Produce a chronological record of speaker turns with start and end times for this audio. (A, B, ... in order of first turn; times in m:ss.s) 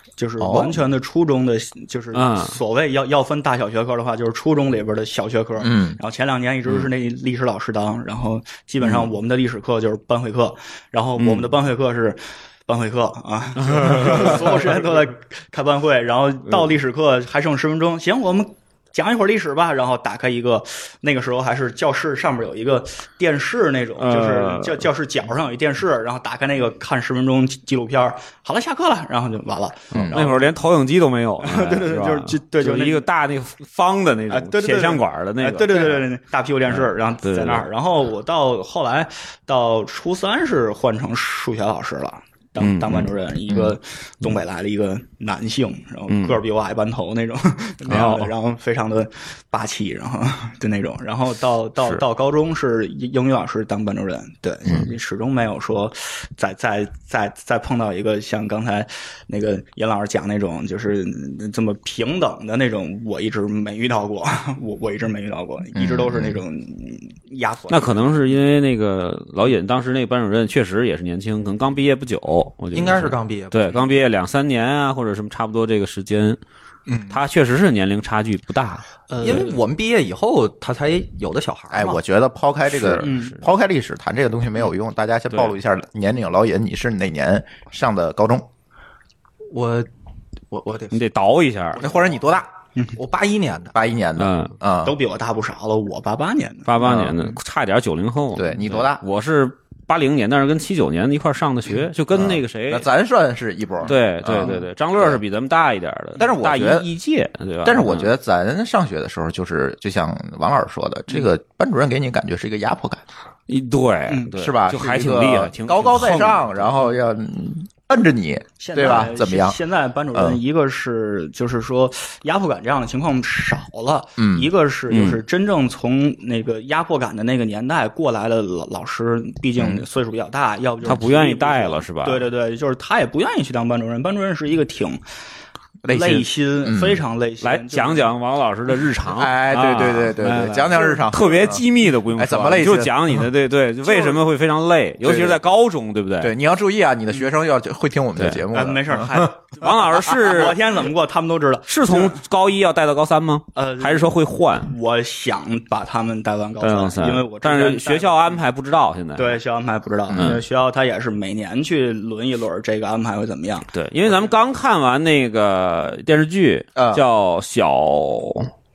0:00.2-0:30.5 A
0:00.4-0:00.8 B
0:02.1-0:02.6 C
0:05.6-0:06.0 B
0:11.2-0:11.5 C
0:13.6-0:14.8 C
0:24.0-0:24.8 C
0:29.9-0:30.2 B
0:30.1-0:36.0 C
0:31.4-0:33.0 A
0:34.3-1:07.9 A
0:36.7-0:37.6 C
0:42.6-0:43.1 C
0:43.5-0:43.7 B
0:46.1-0:46.4 C
0:47.9-0:48.3 C
1:05.7-1:06.4 B
1:07.7-1:16.4 C
1:12.7-1:13.9 D
1:17.1-1:19.6 C
1:19.1-1:22.0 D
1:21.7-1:28.5 B
1:22.7-1:23.4 C
1:23.0-1:23.4 A
1:29.5-1:29.9 D
1:30.5-1:31.0 D
1:30.9-1:31.8 C
1:31.8-1:32.5 B
1:31.8-1:32.1 D
1:32.9-1:33.7 D
1:33.7-1:34.9 B
1:34.2-1:34.5 C
1:34.8-1:36.7 A
1:36.6-1:42.8 C
1:36.8-1:37.1 B
1:38.4-1:39.0 B
1:42.1-1:45.2 B
1:43.8-1:48.1 C
1:46.2-1:46.8 B
1:47.6-1:53.0 B
1:53.5-1:56.6 C
1:54.4-1:59.6 B
1:58.6-2:15.0 A
2:00.1-2:00.4 B
2:04.2-2:04.5 B
2:04.9-2:05.2 C
2:09.6-2:09.8 B
2:10.8-2:12.3 C
2:15.8-2:17.0 B
2:15.9-2:18.1 A
2:17.4-2:26.3 C
2:19.1-2:21.6 B
2:22.2-2:22.9 B
2:23.9-2:24.2 A
2:25.0-2:25.4 B
2:26.2-2:29.3 B
2:28.2-2:28.4 C
2:28.5-2:32.1 A
2:29.6-2:30.6 C
2:31.7-2:34.7 C
2:33.6-2:34.1 A
2:34.6-2:38.4 A
2:36.6-2:39.4 C
2:39.2-2:44.3 A
2:40.1-2:40.4 C
2:43.7-2:48.5 C
2:46.8-2:47.0 B